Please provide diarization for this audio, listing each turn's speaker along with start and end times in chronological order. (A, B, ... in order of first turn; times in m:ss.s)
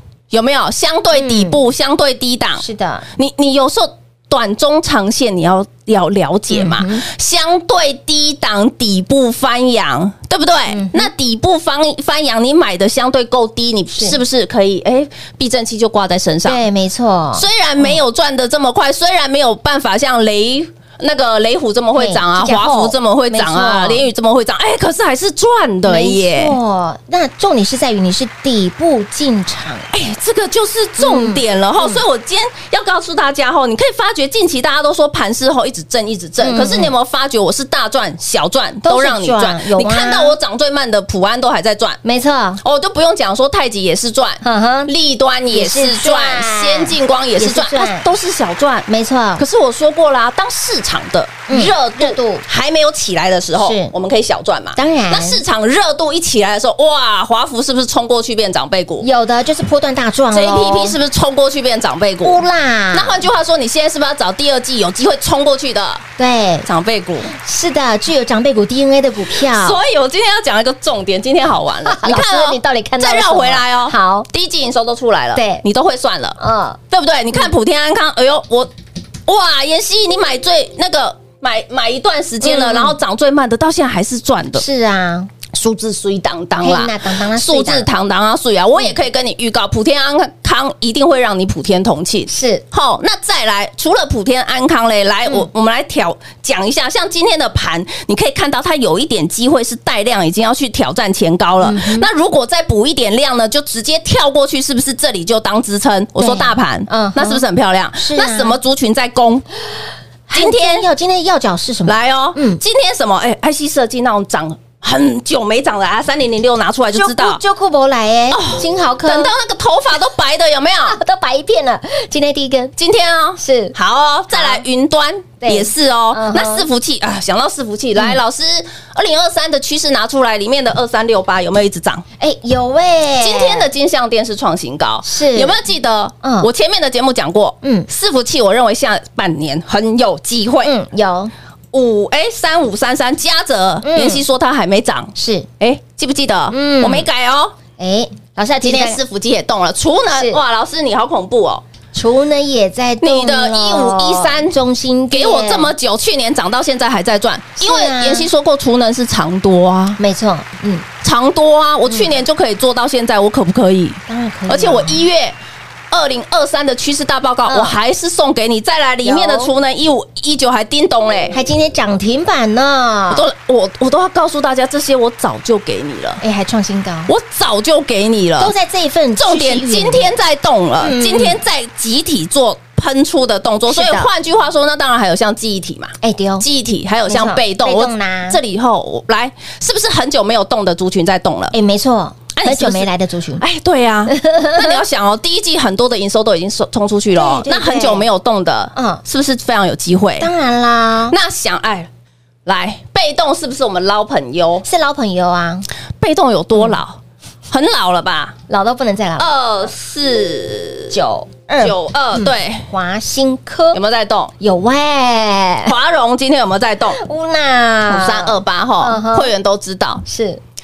0:00.3-0:16.6 A
0:01.1-0:01.6 B
0:02.6-0:03.0 B
0:06.5-0:07.0 B
0:10.7-0:11.1 B
0:16.4-0:18.0 B
0:17.3-0:26.6 A
0:22.0-0:24.0 B
0:25.8-0:29.9 B
0:29.9-0:42.0 A
0:31.0-0:32.0 B
0:36.4-0:36.9 B
0:38.8-0:40.4 B
0:42.0-0:42.6 B
0:42.6-0:59.0 A
0:44.4-0:44.9 B
0:45.5-0:48.1 B
0:48.9-0:49.4 B
0:51.5-0:52.4 B
0:53.5-0:53.9 B
0:54.7-0:55.4 B
0:59.0-1:01.0 B
1:00.3-1:02.4 A
1:02.2-1:03.2 B
1:02.9-1:06.0 A
1:06.2-1:06.7 B
1:06.6-1:07.3 A
1:07.3-1:09.8 B
1:09.4-1:18.7 A
1:11.8-1:14.3 B
1:15.3-1:15.6 B
1:16.4-1:16.8 B
1:19.2-1:24.6 A
1:22.4-1:23.0 B
1:24.5-1:25.3 B
1:25.5-1:49.4 A
1:26.6-1:27.9 B
1:32.3-1:32.6 B
1:41.6-1:42.1 B
1:46.2-1:48.6 B
1:50.3-1:52.6 B
1:50.3-1:50.8 A
1:51.8-1:57.4 A
1:56.9-1:59.3 B
1:58.3-2:01.0 A
2:00.8-2:02.7 B
2:02.8-2:12.0 A
2:03.4-2:03.7 B
2:04.3-2:04.6 B
2:05.4-2:06.6 B
2:12.2-2:13.7 B
2:13.2-2:20.7 A
2:15.0-2:15.6 B
2:16.2-2:16.5 B
2:17.6-2:17.9 B
2:20.6-2:21.3 B
2:21.7-2:27.5 A
2:23.8-2:24.2 B
2:25.1-2:25.5 B
2:26.5-2:27.1 B
2:27.8-2:29.0 B
2:28.6-2:31.6 A
2:30.1-2:30.4 B
2:31.9-2:35.7 B
2:33.0-2:34.6 A
2:35.1-2:40.0 A
2:37.6-2:38.3 B
2:40.0-2:40.8 B
2:41.0-2:45.4 A
2:41.9-2:42.1 B
2:44.1-2:45.0 B
2:45.9-2:51.4 A
2:47.5-2:47.8 B
2:49.0-2:49.5 B
2:51.3-2:53.2 B
2:53.1-2:56.2 A
2:56.2-2:57.1 B
2:57.1-2:58.5 A
2:58.4-3:00.1 B
2:59.2-3:11.5 A
3:00.8-3:01.4 B
3:03.7-3:04.1 B
3:06.0-3:06.4 B
3:07.0-3:08.4 B
3:11.5-3:13.4 B
3:12.3-3:20.3 A
3:14.1-3:14.8 B
3:17.1-3:18.1 B
3:18.7-3:19.0 B
3:20.2-3:21.2 B
3:21.1-3:21.9 A
3:22.4-3:24.6 A
3:24.6-3:25.7 B
3:26.0-3:27.0 A
3:27.5-3:28.3 A
3:28.5-3:29.3 B
3:29.2-3:31.0 A
3:30.9-3:33.8 B
3:31.6-3:32.7 A
3:33.7-3:34.3 A
3:34.4-3:35.7 B
3:35.6-3:37.0 A
3:37.0-3:39.3 B
3:37.8-3:40.0 A
3:40.0-3:40.4 B